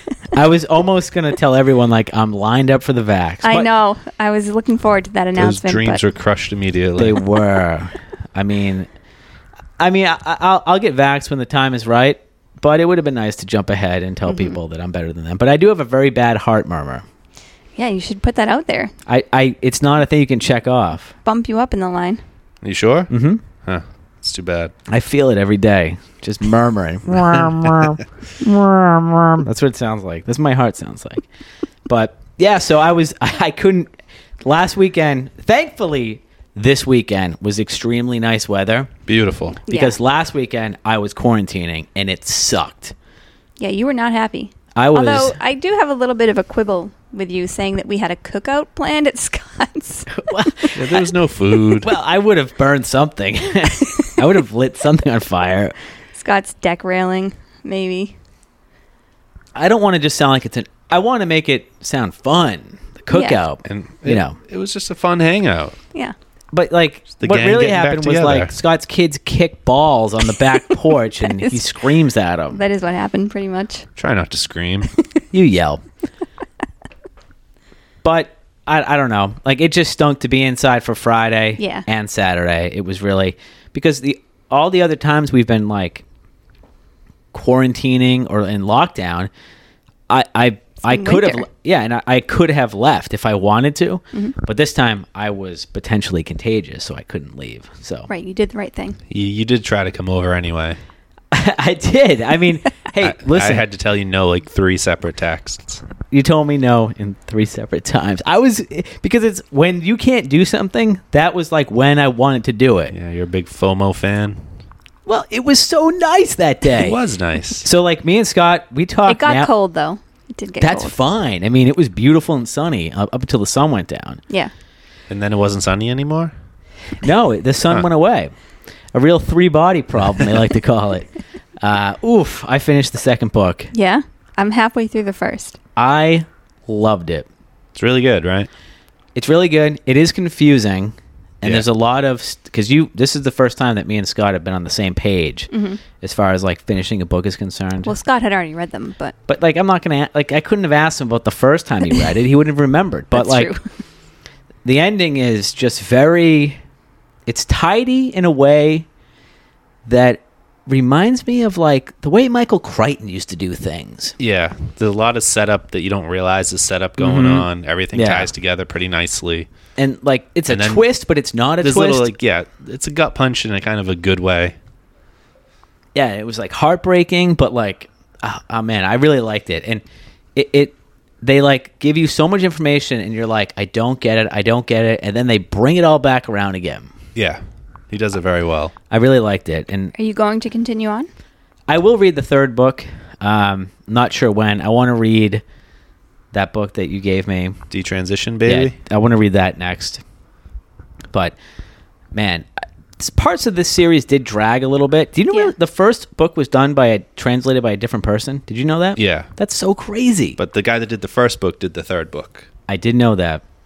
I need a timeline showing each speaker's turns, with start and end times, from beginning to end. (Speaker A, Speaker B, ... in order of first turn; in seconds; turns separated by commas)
Speaker A: 0.3-3.7, Speaker B: 3.4-6.0, Speaker C: 5.4-7.2, Speaker A: 7.0-8.9, Speaker A: 9.8-17.1, Speaker B: 14.3-14.6, Speaker B: 17.8-18.9, Speaker A: 19.1-21.1, Speaker B: 21.2-22.2, Speaker C: 22.6-24.7, Speaker A: 23.1-23.4, Speaker A: 24.9-31.2, Speaker C: 27.1-28.0, Speaker A: 31.9-33.9, Speaker A: 34.4-38.9, Speaker C: 39.1-39.6, Speaker B: 39.7-40.0, Speaker A: 39.7-42.9, Speaker B: 43.6-50.1, Speaker A: 44.8-45.4, Speaker A: 50.1-51.1, Speaker C: 50.8-51.9, Speaker A: 51.8-55.7, Speaker B: 56.2-58.1, Speaker A: 59.5-64.4, Speaker B: 63.1-63.4, Speaker C: 63.6-65.8, Speaker A: 66.5-72.6, Speaker C: 67.2-68.6, Speaker B: 71.2-71.9, Speaker B: 72.5-73.9, Speaker C: 74.0-74.9, Speaker A: 75.3-75.8, Speaker A: 78.0-86.0, Speaker B: 81.6-81.8, Speaker A: 87.3-89.3, Speaker A: 90.1-98.1, Speaker B: 90.9-91.5, Speaker B: 98.1-99.0, Speaker C: 99.1-100.8, Speaker A: 101.3-103.7, Speaker C: 103.0-105.8, Speaker A: 106.1-112.9, Speaker C: 112.9-114.4, Speaker A: 115.1-117.0, Speaker C: 116.7-117.7, Speaker A: 117.6-119.5, Speaker B: 119.1-121.0, Speaker A: 120.6-124.2, Speaker C: 125.1-126.3, Speaker A: 127.0-128.3, Speaker A: 128.9-131.1, Speaker A: 131.6-133.7, Speaker B: 133.7-135.6, Speaker A: 135.8-137.3, Speaker C: 137.8-138.5, Speaker A: 139.2-145.5, Speaker B: 145.5-145.8, Speaker A: 146.0-147.9, Speaker B: 147.8-149.2, Speaker A: 149.3-153.5, Speaker B: 153.1-153.6, Speaker A: 154.7-156.6, Speaker A: 157.3-158.8, Speaker A: 159.8-164.2, Speaker C: 164.2-169.5, Speaker A: 167.0-168.3, Speaker A: 169.8-172.2, Speaker C: 170.5-170.8, Speaker C: 171.6-174.6, Speaker A: 175.9-179.8, Speaker A: 180.3-186.9, Speaker C: 187.2-188.7, Speaker A: 188.9-189.9, Speaker B: 189.9-191.1, Speaker A: 191.7-195.4, Speaker A: 196.3-197.6, Speaker C: 197.7-198.8, Speaker A: 198.4-200.0, Speaker A: 202.1-210.4, Speaker C: 208.9-209.3, Speaker C: 210.4-212.5, Speaker A: 212.7-213.4